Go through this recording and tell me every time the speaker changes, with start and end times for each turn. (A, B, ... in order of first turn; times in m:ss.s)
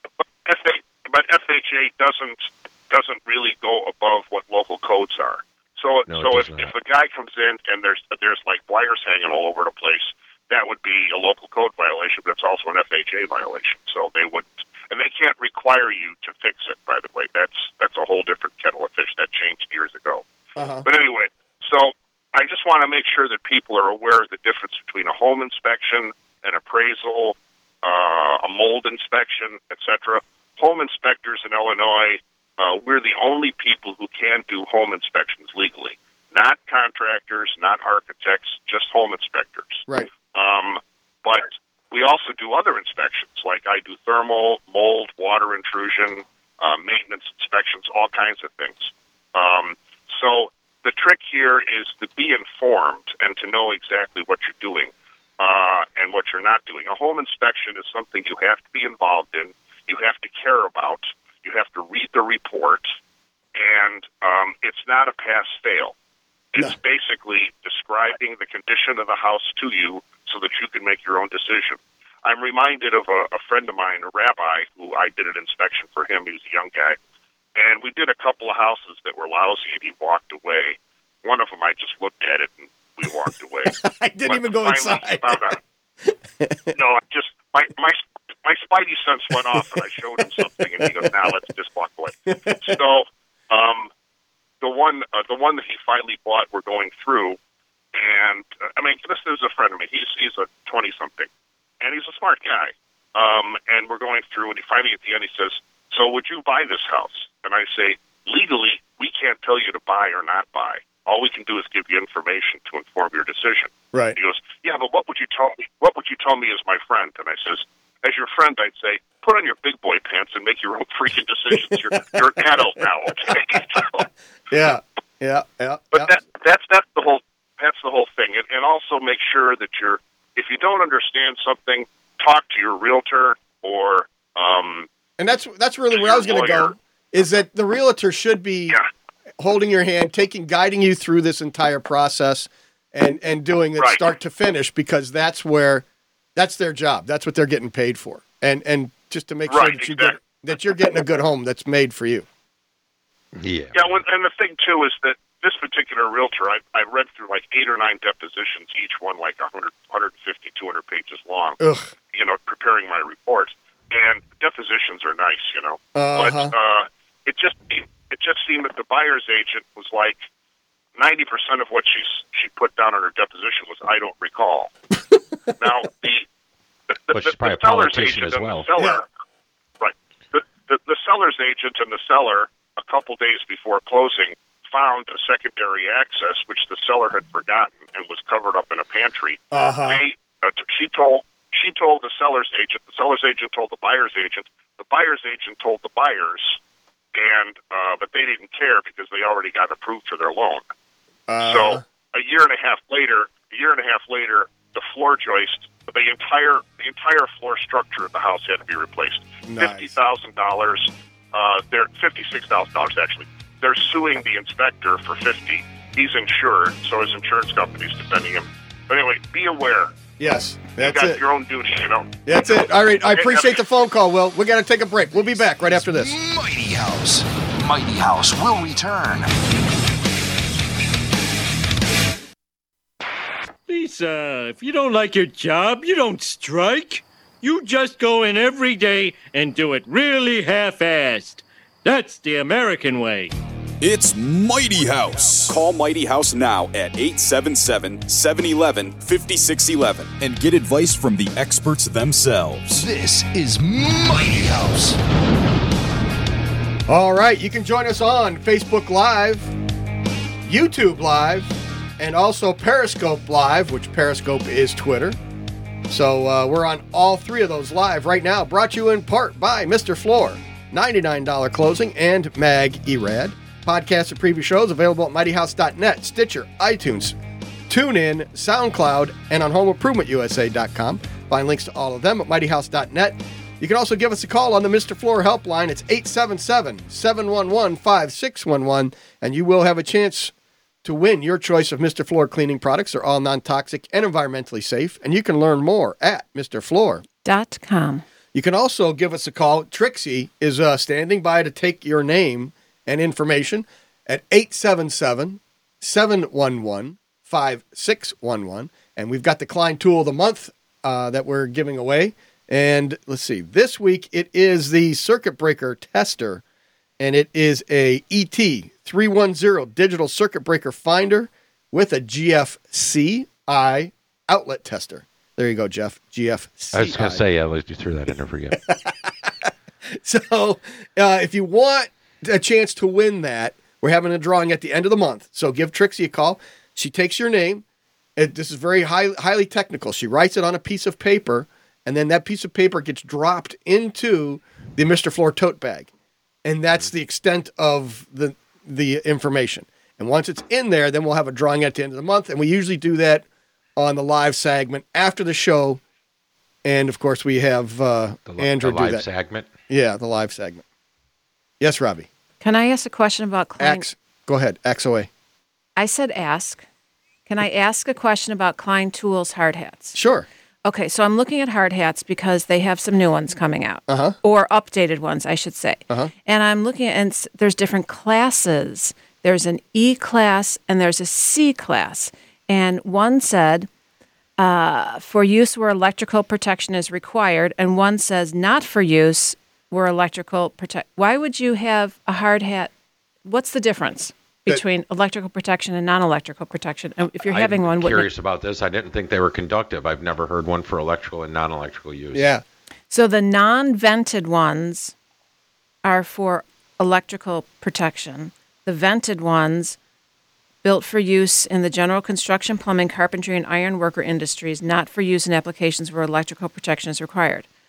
0:00.4-0:20.2 A
0:06.1-0:06.7 B
0:20.6-0:20.8 C
0:20.8-1:02.9 A
1:03.5-1:05.9 A
1:06.5-1:17.0 A
1:17.6-1:25.6 A
1:23.7-1:26.7 C
1:26.7-1:33.9 A
1:29.3-1:29.6 C
1:30.4-1:31.1 C
1:32.3-1:32.8 C
1:34.6-1:37.4 A
1:37.9-1:41.3 A
1:41.8-2:04.1 A
2:04.5-2:06.1 C
2:05.9-2:14.9 A
2:15.2-2:18.8 C
2:15.9-2:16.7 A
2:19.4-2:25.8 C
2:26.4-2:32.2 C
2:29.5-2:30.2 A
2:33.3-2:33.8 B
2:33.7-2:41.6 A
2:41.6-2:41.9 C
2:42.1-2:50.2 A
2:45.9-2:46.5 C
2:51.0-2:54.7 A
2:55.6-2:56.2 A
2:56.9-2:59.0 A
2:57.1-2:58.7 B
2:59.8-3:16.6 A
3:09.5-3:10.0 C
3:17.1-3:20.6 A
3:21.3-3:21.8 C
3:21.4-3:39.9 A
3:29.4-3:29.9 C
3:40.2-3:41.2 C
3:40.8-3:42.2 A
3:42.2-3:46.1 C
3:43.0-3:43.6 A
3:45.7-3:49.3 D
3:53.7-4:03.3 E
4:03.8-4:12.8 F
4:12.7-4:15.0 D
4:16.9-4:19.5 C
4:20.4-4:25.2 C
4:25.9-4:37.2 C
4:37.7-4:50.3 C
4:50.8-4:57.0 C
4:57.2-4:58.0 G
4:58.3-5:16.4 C
5:17.0-5:27.2 C
5:26.7-5:28.6 B
5:28.5-5:37.6 C
5:38.2-5:45.9 C
5:46.4-5:53.2 C
5:53.8-5:55.8 C
5:56.6-5:59.0 C
5:58.3-5:59.5 B
5:59.7-6:00.6 C
6:01.6-6:02.1 C
6:02.4-6:03.8 G
6:03.6-6:05.1 C
6:05.8-6:06.6 G
6:07.3-6:10.0 G
6:09.9-6:10.3 C
6:10.6-6:23.7 G
6:13.9-6:14.2 C
6:24.4-6:32.7 G
6:33.2-6:38.1 G
6:37.2-6:42.3 B
6:42.1-6:42.4 C
6:42.9-6:44.9 G
6:45.8-6:49.8 G
6:50.6-6:57.4 G